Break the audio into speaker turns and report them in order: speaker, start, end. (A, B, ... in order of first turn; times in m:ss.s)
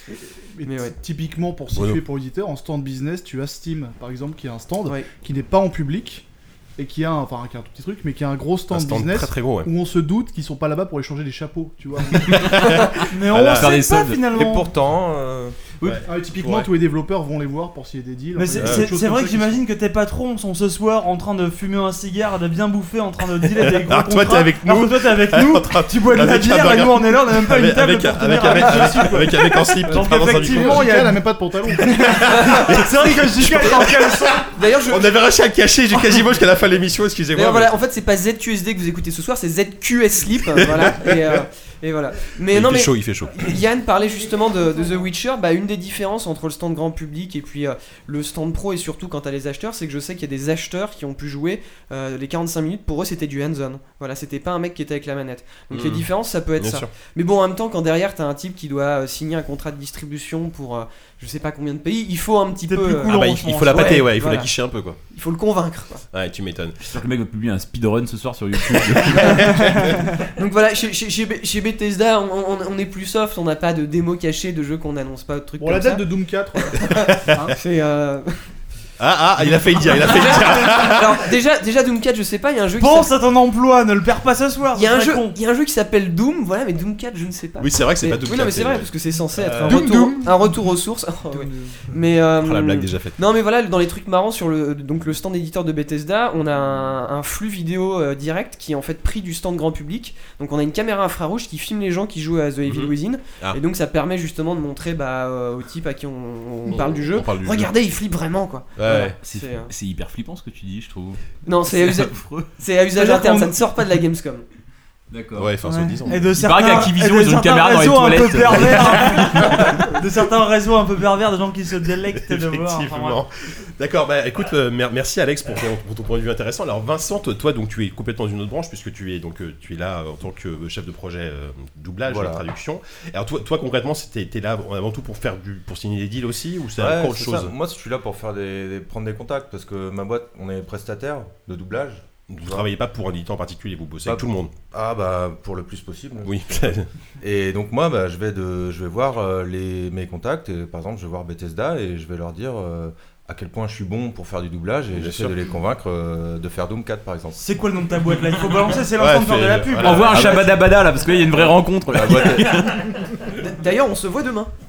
0:00.1-0:06.2 A
0:00.6-0:00.9 B
0:01.7-0:02.0 C
0:06.8-0:12.7 A
0:08.7-0:09.7 C
0:12.3-0:12.8 D
0:12.4-0:13.8 C
0:13.1-0:14.7 E
0:13.4-0:14.2 D
0:14.1-0:15.6 F
0:15.8-0:16.7 C
0:16.0-0:19.6 A
0:18.3-0:34.5 E
0:18.6-0:18.9 C
0:23.5-0:30.9 C
0:29.9-0:30.2 B
0:30.4-0:32.1 A
0:31.9-0:37.7 C
0:32.2-0:32.8 B
0:33.4-0:33.8 B
0:34.5-0:35.1 B
0:37.3-1:03.1 B
0:40.8-0:41.1 C
0:42.5-0:43.6 C
0:55.7-0:56.9 C
1:02.7-1:04.1 E
1:03.0-1:05.0 C
1:03.7-1:04.5 B
1:05.1-1:06.0 B
1:06.1-1:06.8 C
1:06.9-1:09.6 D
1:09.2-1:09.5 B
1:10.2-1:18.4 B
1:15.6-1:16.8 A
1:16.9-1:17.5 C
1:19.0-1:21.2 C
1:19.8-1:23.1 B
1:22.8-1:25.4 E
1:24.7-1:49.7 B
1:27.6-1:29.9 C
1:29.6-1:30.3 E
1:32.4-1:33.2 C
1:42.6-1:43.6 C
1:46.7-1:47.7 C
1:48.8-1:49.1 C
1:49.2-1:52.5 D
1:51.4-1:54.4 B
1:53.0-1:53.6 E
1:55.1-1:55.5 D
1:55.4-1:56.3 C
1:55.6-2:03.2 E
1:56.4-1:59.8 D
2:02.1-2:17.5 C
2:12.1-2:12.5 F
2:16.8-2:22.7 F
2:22.3-2:24.5 C
2:24.0-2:37.4 F
2:26.2-2:26.9 C
2:34.9-2:35.4 C
2:37.4-2:40.5 E
2:39.0-2:40.3 C
2:39.8-2:42.9 D
2:40.1-2:40.5 F
2:41.3-2:42.8 F
2:43.2-2:44.5 B